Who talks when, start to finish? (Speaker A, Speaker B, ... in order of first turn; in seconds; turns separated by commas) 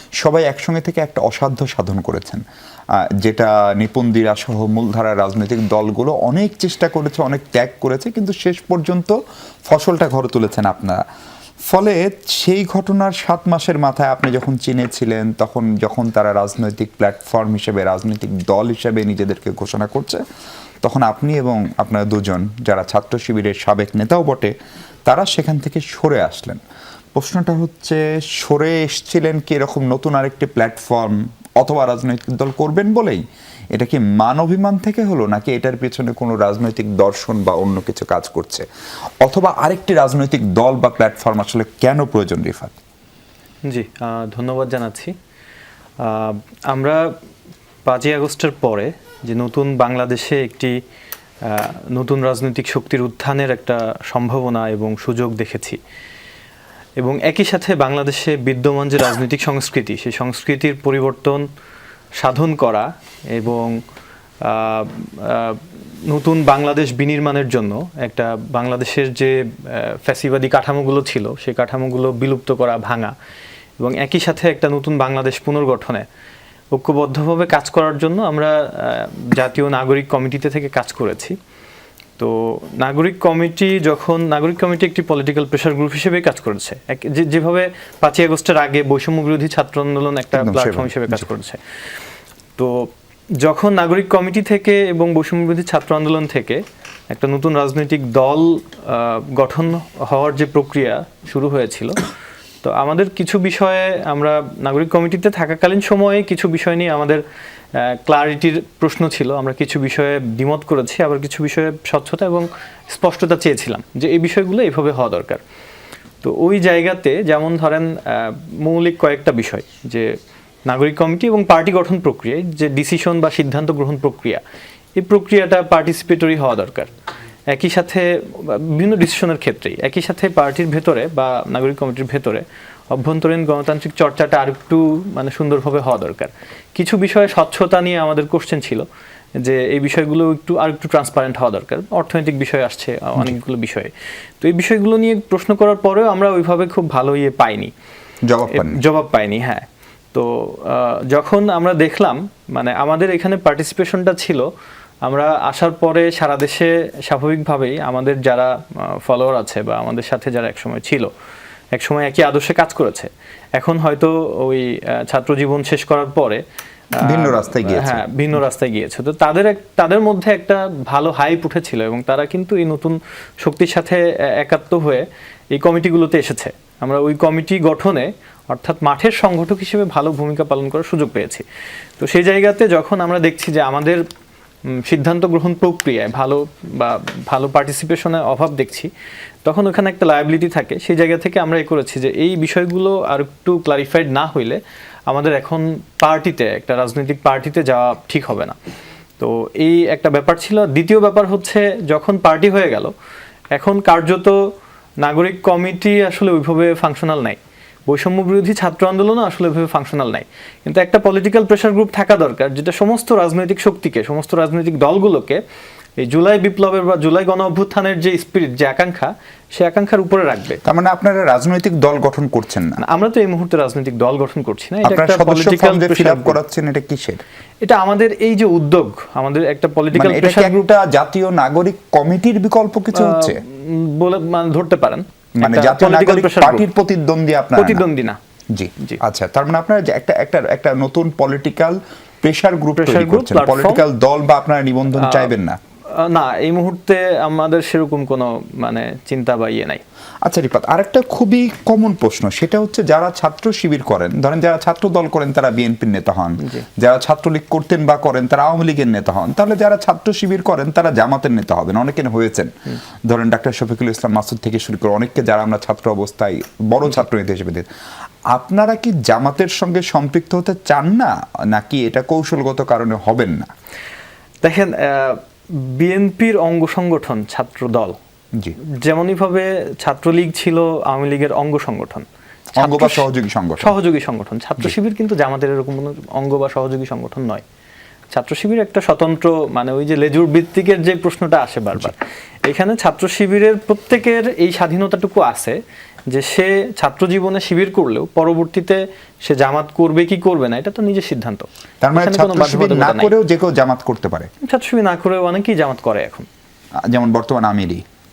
Speaker A: 0.2-2.4, Speaker A: 3.2-9.1, Speaker A: 9.7-11.0, Speaker A: 11.7-20.2, Speaker A: 20.8-24.5, Speaker A: 25.1-26.6, Speaker A: 27.1-33.2, Speaker A: 33.7-38.6, Speaker A: 39.2-42.7, Speaker B: 43.6-45.1, Speaker B: 46.0-47.1, Speaker B: 47.9-50.8, Speaker B: 51.4-55.8, Speaker B: 57.0-61.5, Speaker B: 62.2-63.8, Speaker B: 64.4-73.1, Speaker B: 73.8-76.0, Speaker B: 76.7-81.3, Speaker B: 82.2-91.6, Speaker A: 90.3-91.3, Speaker B: 92.6-102.0, Speaker B: 102.6-107.2, Speaker B: 107.7-115.4, Speaker B: 116.2-124.4, Speaker B: 125.0-126.9, Speaker B: 127.5-138.8, Speaker B: 139.4-147.7, Speaker A: 148.3-148.8, Speaker B: 148.5-154.5, Speaker B: 155.0-161.1, Speaker B: 161.7-166.4, Speaker A: 167.0-168.0, Speaker B: 167.0-181.4, Speaker B: 182.0-184.0, Speaker B: 184.7-188.9, Speaker B: 189.4-198.6, Speaker B: 199.2-202.9, Speaker B: 203.5-204.4, Speaker B: 205.0-215.4, Speaker B: 216.0-220.6, Speaker A: 220.6-222.8, Speaker B: 222.8-226.4, Speaker A: 224.8-227.2, Speaker B: 227.6-230.7, Speaker A: 229.9-233.4, Speaker B: 232.9-236.7, Speaker A: 235.4-237.8, Speaker B: 237.6-238.2, Speaker A: 238.5-245.6, Speaker B: 242.8-243.8, Speaker B: 244.9-245.3, Speaker B: 245.9-249.8, Speaker A: 250.2-262.5, Speaker A: 263.1-267.7, Speaker A: 268.3-273.5, Speaker B: 274.4-277.9, Speaker B: 278.6-282.1, Speaker A: 282.6-283.7, Speaker B: 282.6-283.1, Speaker B: 283.6-287.4, Speaker B: 288.1-295.6, Speaker B: 296.1-303.1, Speaker A: 301.8-304.3, Speaker B: 304.4-306.3, Speaker A: 306.8-307.8